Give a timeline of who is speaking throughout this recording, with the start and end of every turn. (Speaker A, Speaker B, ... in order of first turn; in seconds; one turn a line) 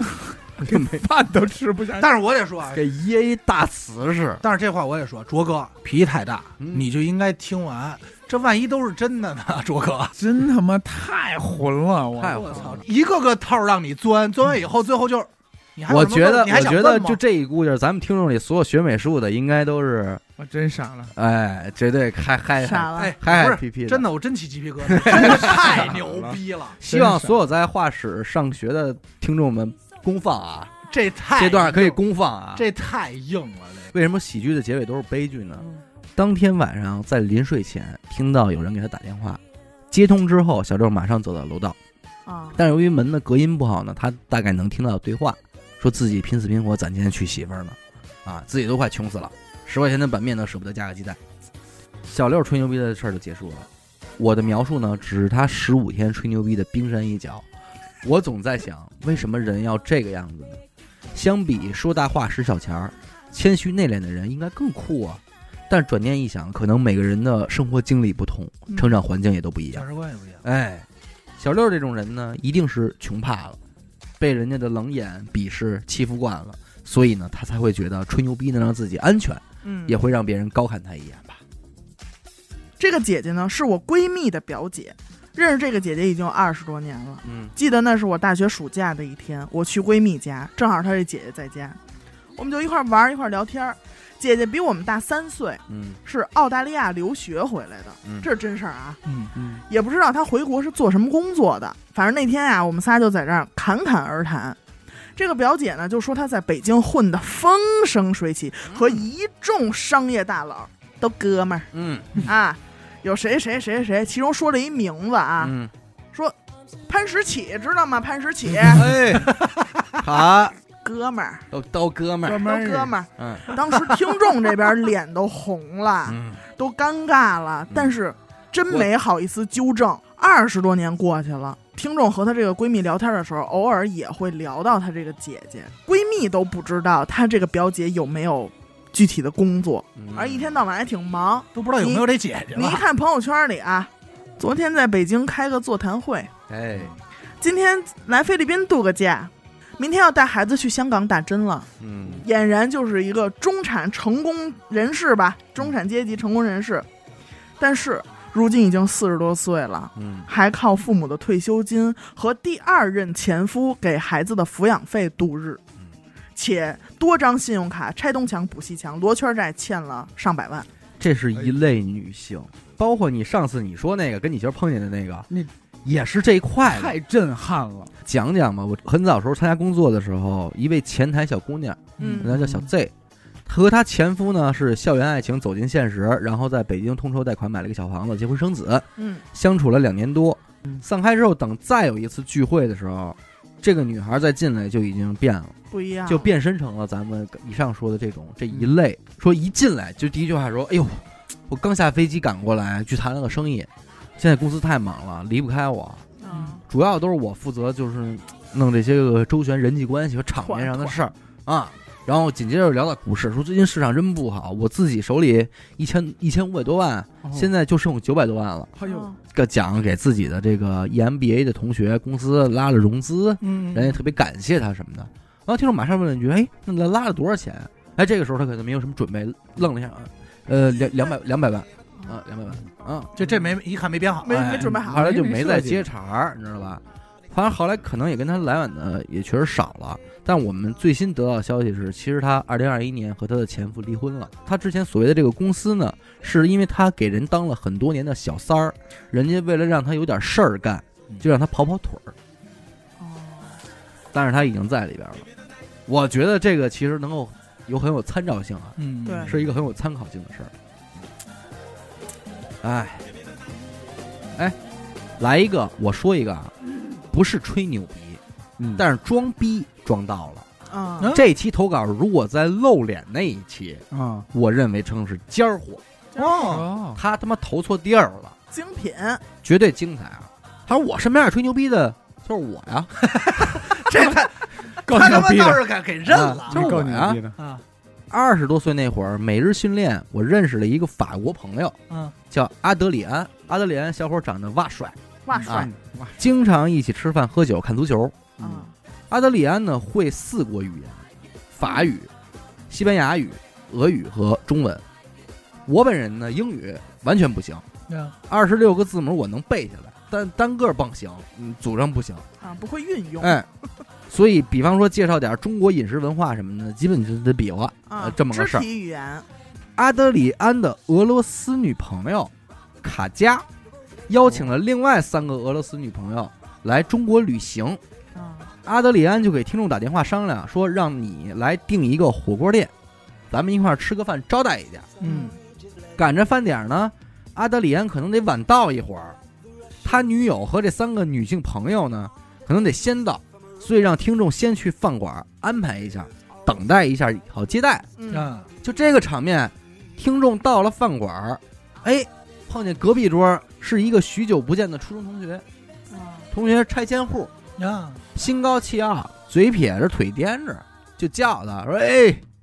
Speaker A: 0.6-1.0
Speaker B: 0.7-2.1
Speaker C: 1.9-2.8
Speaker A: 2.7-4.4
Speaker C: 4.4-10.1
Speaker A: 6.6-6.8
Speaker B: 10.2-12.7
Speaker A: 12.2-12.8
Speaker C: 12.4-17.2
Speaker A: 15.9-20.2
Speaker B: 20.4-21.1
Speaker A: 21.1-24.1
Speaker D: 22.6-23.1
Speaker C: 23.0-26.8
Speaker A: 24.9-25.9
Speaker B: 25.1-27.4
Speaker A: 26.8-30.7
Speaker C: 30.9-32.0
Speaker A: 31.4-32.7
Speaker C: 32.5-33.9
Speaker A: 33.9-41.8
Speaker D: 42.2-42.6
Speaker A: 42.5-51.2
Speaker A: 52.0-57.5
Speaker A: 58.0-60.6
Speaker A: 61.1-69.8
Speaker D: 68.7-68.9
Speaker C: 69.7-70.4
Speaker A: 70.4-70.9
Speaker A: 71.4-73.6
Speaker A: 74.2-81.4
Speaker D: 79.6-80.0
Speaker D: 82.8-91.8
Speaker A: 87.2-87.5
Speaker D: 92.3-99.0
Speaker A: 95.7-96.0
Speaker C: 99.0-99.3
Speaker B: 99.3-99.6
Speaker D: 99.7-104.6
Speaker D: 105.2-115.5
Speaker A: 108.7-109.1
Speaker A: 111.7-112.1
Speaker A: 115.4-115.7
Speaker D: 116.9-118.9
Speaker A: 118.6-119.4
Speaker C: 119.2-119.6
Speaker A: 119.9-120.5
Speaker D: 120.8-121.5
Speaker A: 121.5-123.5
Speaker D: 122.2-146.3
Speaker A: 126.0-126.4
Speaker A: 127.7-127.9
Speaker A: 139.9-140.6
Speaker C: 141.5-142.8
Speaker A: 146.5-146.9
Speaker D: 147.4-156.9
Speaker A: 151.8-152.2
Speaker D: 157.6-165.6
Speaker A: 159.9-160.3
Speaker D: 166.3-170.7
Speaker A: 171.0-175.3
Speaker A: 175.8-177.0
Speaker B: 176.7-177.9
Speaker A: 178.0-182.9
Speaker D: 182.0-182.3
Speaker B: 182.0-182.7
Speaker A: 183.4-195.5
Speaker D: 189.0-189.2
Speaker D: 195.7-196.3
Speaker A: 196.1-206.0
Speaker D: 206.2-206.6
Speaker A: 206.6-218.7
Speaker D: 210.4-211.0
Speaker B: 217.2-217.5
Speaker B: 218.8-219.1
Speaker D: 218.8-219.2
Speaker A: 219.3-233.1
Speaker C: 223.4-224.0
Speaker C: 233.2-234.4
Speaker D: 234.2-235.1
Speaker A: 234.3-252.1
Speaker B: 234.6-235.9
Speaker D: 253.0-253.6
Speaker A: 254.1-255.2
Speaker A: 255.9-260.5
Speaker C: 258.8-259.5
Speaker D: 259.0-259.3
Speaker A: 262.6-263.0
Speaker A: 265.2-268.2
Speaker B: 268.6-268.8
Speaker A: 268.8-270.4
Speaker D: 270.7-271.1
Speaker C: 271.0-271.3
Speaker A: 271.1-275.8
Speaker B: 273.9-274.3
Speaker D: 276.1-276.5
Speaker C: 276.1-276.7
Speaker B: 276.4-277.0
Speaker A: 276.9-278.3
Speaker D: 278.5-279.2
Speaker A: 279.4-282.9
Speaker C: 283.0-286.7
Speaker B: 284.9-285.6
Speaker A: 286.1-287.2
Speaker B: 286.5-287.4
Speaker C: 287.4-287.6
Speaker A: 288.1-291.8
Speaker C: 291.9-292.1
Speaker A: 292.3-298.2
Speaker D: 295.2-295.7
Speaker B: 295.3-296.1
Speaker B: 298.4-298.6
Speaker D: 298.4-298.7
Speaker A: 299.1-302.1
Speaker A: 302.7-304.8
Speaker A: 305.6-307.6
Speaker C: 307.9-308.1
Speaker A: 308.3-312.2
Speaker D: 312.4-313.4
Speaker A: 313.2-313.5
Speaker A: 314.1-318.6
Speaker D: 317.9-319.2
Speaker A: 319.8-323.4
Speaker A: 324.1-327.8
Speaker D: 328.1-328.5
Speaker A: 328.6-332.7
Speaker A: 333.3-334.9
Speaker C: 335.0-335.3
Speaker D: 335.0-335.4
Speaker A: 335.9-339.2
Speaker A: 339.8-347.9
Speaker D: 348.0-348.3
Speaker C: 348.1-348.5
Speaker A: 348.6-355.4
Speaker D: 355.9-356.3
Speaker A: 356.3-357.3
Speaker C: 357.6-358.0
Speaker A: 358.1-362.2